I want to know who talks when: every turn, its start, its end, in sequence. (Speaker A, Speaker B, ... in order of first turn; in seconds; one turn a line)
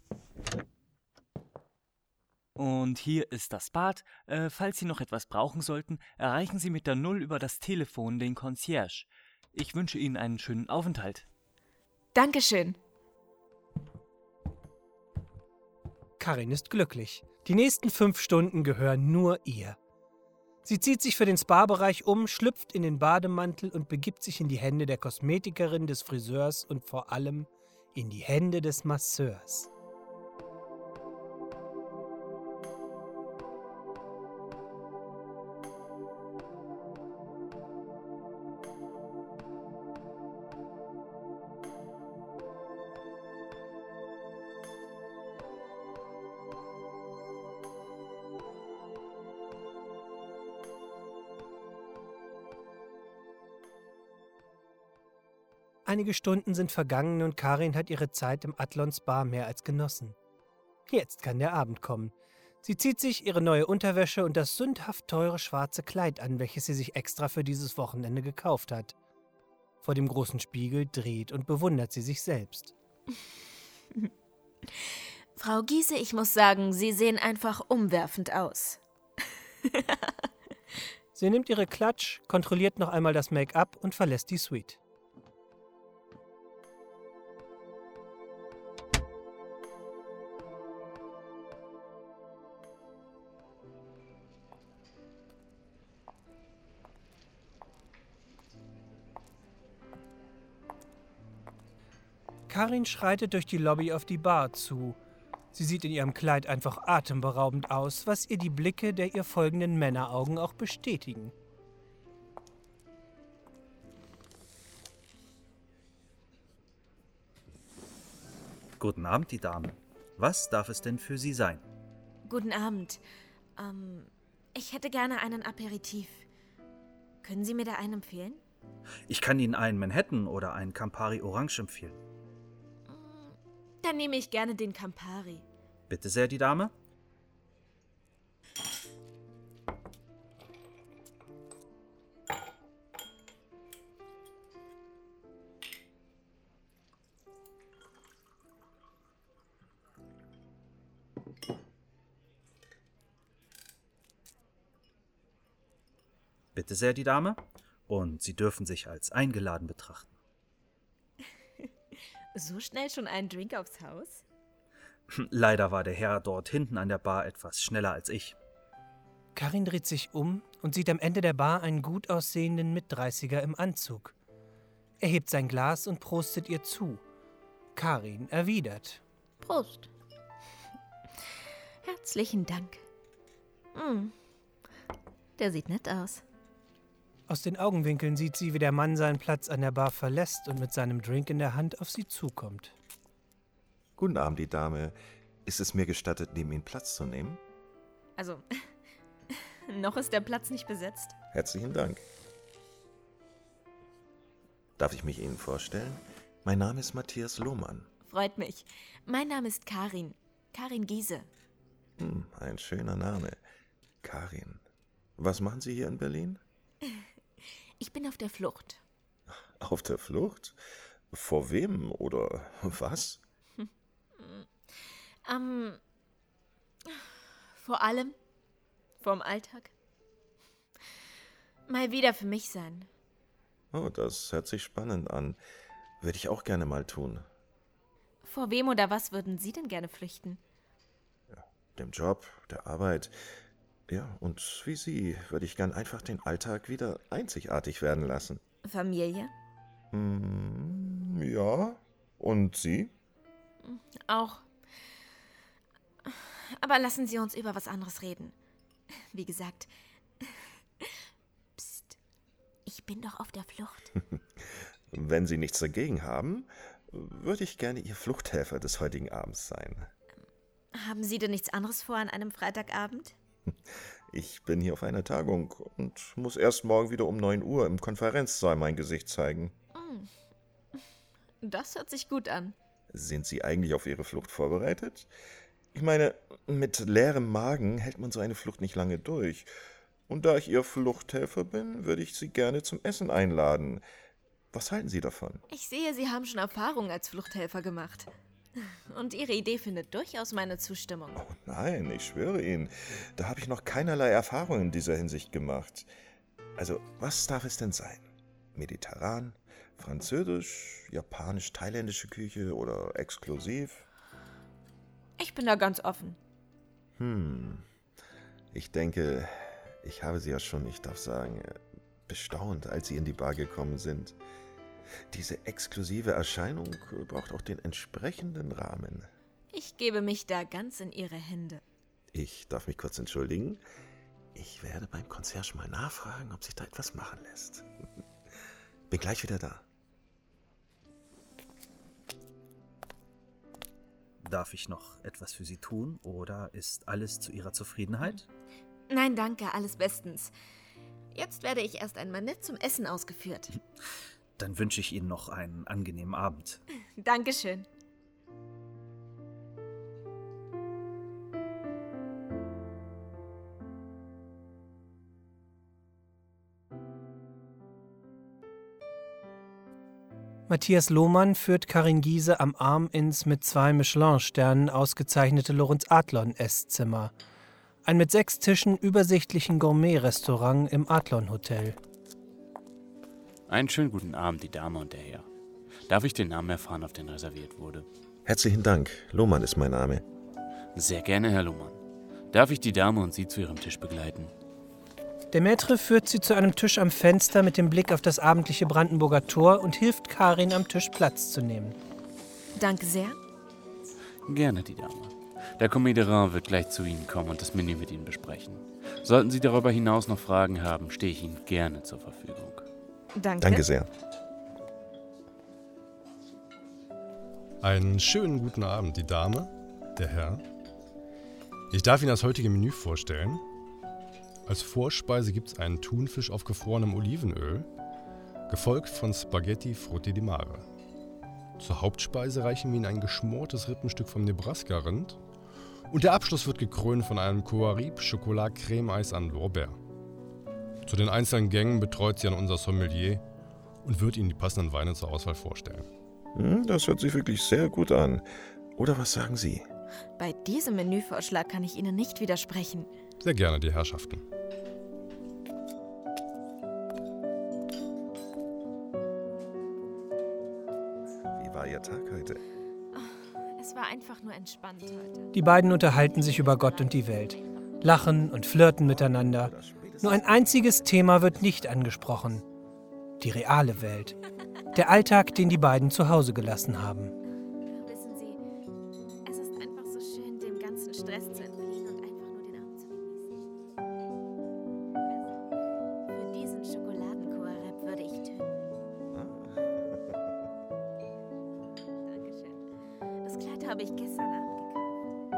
Speaker A: 2.6-11.3
Speaker B: 12.1-12.8
Speaker C: 16.2-19.8
Speaker C: 20.6-29.7
Speaker C: 55.9-60.2
Speaker C: 60.9-69.0
Speaker C: 69.8-72.7
Speaker B: 74.7-80.1
Speaker C: 81.2-84.8
Speaker C: 102.5-105.0
Speaker C: 105.5-111.3
Speaker D: 118.8-121.6
Speaker B: 122.3-123.0
Speaker B: 123.6-126.3
Speaker B: 127.2-128.4
Speaker D: 129.1-132.0
Speaker B: 132.9-135.4
Speaker D: 135.9-136.7
Speaker D: 156.5-160.2
Speaker B: 162.3-164.2
Speaker D: 165.1-168.3
Speaker C: 169.3-174.1
Speaker C: 175.0-177.0
Speaker C: 177.8-179.0
Speaker B: 179.4-179.9
Speaker B: 181.8-182.8
Speaker B: 183.7-184.1
Speaker B: 185.4-186.2
Speaker C: 187.3-192.8
Speaker E: 194.0-197.4
Speaker B: 198.2-198.4
Speaker B: 199.3-201.2
Speaker E: 201.3-202.0
Speaker E: 204.8-207.9
Speaker B: 208.1-211.3
Speaker E: 212.0-213.4
Speaker E: 214.0-214.6
Speaker E: 215.2-216.4
Speaker B: 217.8-218.8
Speaker E: 219.6-220.6
Speaker E: 221.1-223.2
Speaker B: 223.6-225.8
Speaker B: 226.9-228.2
Speaker B: 229.0-229.7
Speaker B: 231.7-232.9
Speaker E: 233.7-235.4
Speaker E: 236.0-237.3
Speaker B: 238.2-240.4
Speaker E: 241.3-243.2
Speaker E: 243.9-248.4
Speaker B: 248.7-249.3
Speaker E: 249.9-252.9
Speaker B: 253.6-254.5
Speaker B: 256.0-258.4
Speaker B: 259.0-261.0
Speaker B: 261.6-262.0
Speaker B: 262.6-263.9
Speaker E: 264.9-269.9
Speaker B: 270.7-273.1
Speaker E: 274.1-279.5
Speaker B: 279.8-280.1
Speaker B: 281.4-282.5
Speaker E: 282.9-285.1
Speaker E: 285.7-289.5
Speaker E: 290.1-293.8
Speaker E: 294.5-295.4
Speaker B: 295.5-298.1
Speaker B: 298.7-301.2
Speaker E: 301.2-305.9
Speaker E: 306.6-313.9
Speaker B: 315.2-316.2
Speaker E: 317.0-317.6
Speaker E: 318.5-324.2
Speaker E: 325.1-329.1
Speaker B: 329.5-331.6
Speaker E: 332.1-333.6
Speaker E: 334.3-337.7
Speaker E: 338.9-339.6
Speaker D: 344.2-348.3
Speaker B: 348.9-350.3
Speaker B: 351.1-353.5
Speaker D: 354.4-356.6
Speaker B: 357.0-357.7
Speaker C: 370.5-377.1
Speaker C: 377.9-381.8
Speaker F: 383.5-385.3
Speaker F: 385.9-387.9
Speaker E: 388.2-390.0
Speaker F: 390.8-391.8
Speaker F: 392.3-394.3
Speaker C: 395.3-401.8
Speaker B: 402.6-403.2
Speaker F: 404.3-412.7
Speaker B: 413.2-413.6
Speaker E: 413.4-413.9
Speaker G: 417.6-420.4
Speaker G: 421.7-423.4
Speaker G: 424.4-427.7
Speaker G: 428.5-430.6
Speaker G: 431.6-435.2
Speaker G: 435.9-439.8
Speaker G: 440.9-443.2
Speaker G: 443.8-445.9
Speaker E: 446.4-449.7
Speaker B: 450.2-452.9
Speaker G: 453.2-454.2
Speaker E: 461.3-462.4
Speaker B: 462.9-465.3
Speaker C: 465.3-472.4
Speaker E: 468.8-472.1
Speaker C: 473.2-474.2
Speaker C: 474.7-477.1
Speaker B: 477.7-478.4
Speaker B: 479.2-483.3
Speaker B: 485.1-485.4
Speaker B: 486.1-488.7
Speaker E: 489.1-490.2
Speaker B: 492.0-492.6
Speaker B: 493.2-495.0